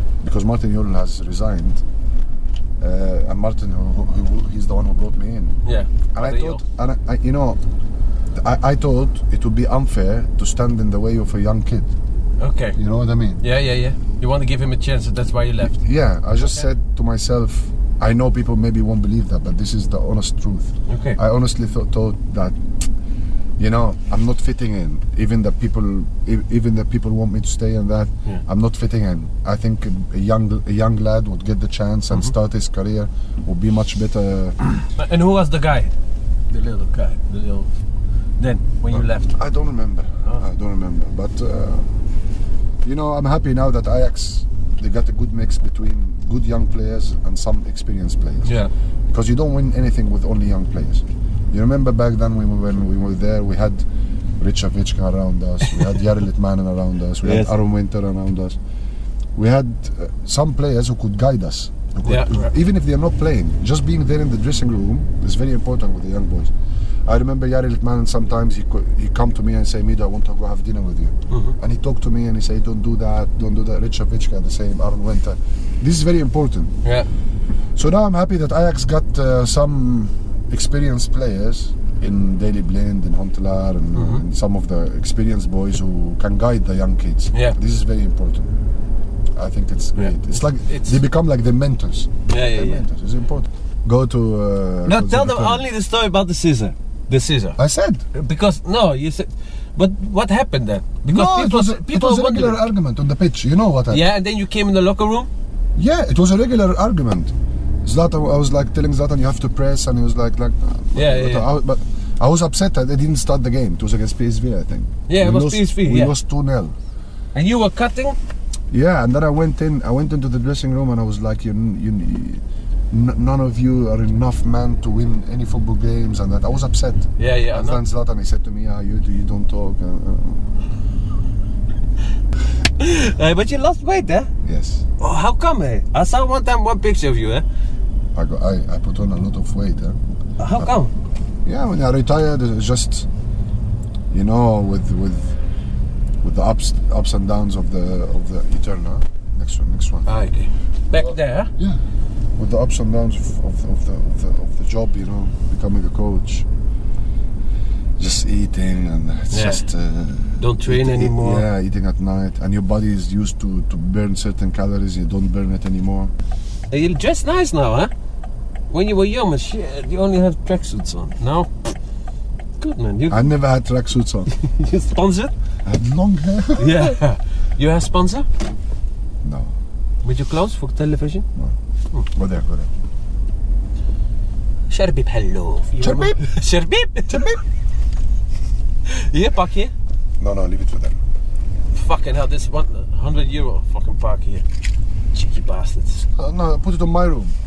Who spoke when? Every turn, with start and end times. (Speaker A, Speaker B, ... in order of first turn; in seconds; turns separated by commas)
Speaker A: 0.2-1.8, Speaker A: 2.8-5.6, Speaker B: 5.7-6.6, Speaker A: 6.1-7.6, Speaker A: 8.3-11.9, Speaker B: 12.4-12.8, Speaker A: 12.8-13.4, Speaker B: 13.4-15.8, Speaker A: 15.6-22.6, Speaker B: 20.9-21.2, Speaker A: 23.6-34.6, Speaker B: 35.0-35.9, Speaker B: 36.5-37.7, Speaker B: 38.4-39.4, Speaker A: 38.9-41.9, Speaker A: 42.8-48.5, Speaker A: 49.1-53.8, Speaker A: 54.4-58.6, Speaker B: 57.2-57.5, Speaker A: 59.4-66.5, Speaker B: 62.1-62.5, Speaker A: 67.1-76.7, Speaker B: 71.3-71.6, Speaker A: 77.8-88.5, Speaker B: 83.9-84.2, Speaker A: 89.3-95.7, Speaker B: 90.0-91.0, Speaker B: 92.3-92.8, Speaker B: 94.8-97.6, Speaker A: 97.6-98.0, Speaker B: 98.1-102.6, Speaker A: 101.0-104.1, Speaker B: 103.9-105.3, Speaker A: 105.8-116.8, Speaker B: 111.0-111.5, Speaker B: 115.1-116.1, Speaker B: 117.3-118.2, Speaker A: 118.7-130.5, Speaker B: 127.2-127.8, Speaker B: 132.8-134.3, Speaker A: 134.4-134.8, Speaker B: 135.0-137.4, Speaker A: 138.2-140.0, Speaker B: 140.4-140.9, Speaker A: 141.4-143.1, Speaker A: 144.1-145.3, Speaker A: 146.2-150.1, Speaker B: 150.1-151.5, Speaker A: 151.0-151.8, Speaker A: 152.4-156.5, Speaker A: 158.0-166.1, Speaker B: 159.3-159.6, Speaker B: 160.4-161.4, Speaker B: 166.7-167.9, Speaker B: 168.7-171.7, Speaker B: 172.6-173.3, Speaker A: 173.1-174.3, Speaker B: 174.3-175.3, Speaker A: 175.7-177.0, Speaker B: 176.6-178.3, Speaker A: 179.2-179.5, Speaker B: 180.0-181.3, Speaker A: 182.1-182.7, Speaker B: 184.7-187.2, Speaker A: 185.8-186.2, Speaker A: 187.1-187.4, Speaker B: 188.9-189.7, Speaker A: 190.2-191.0, Speaker B: 191.7-194.4, Speaker B: 195.1-196.1, Speaker A: 196.2-197.3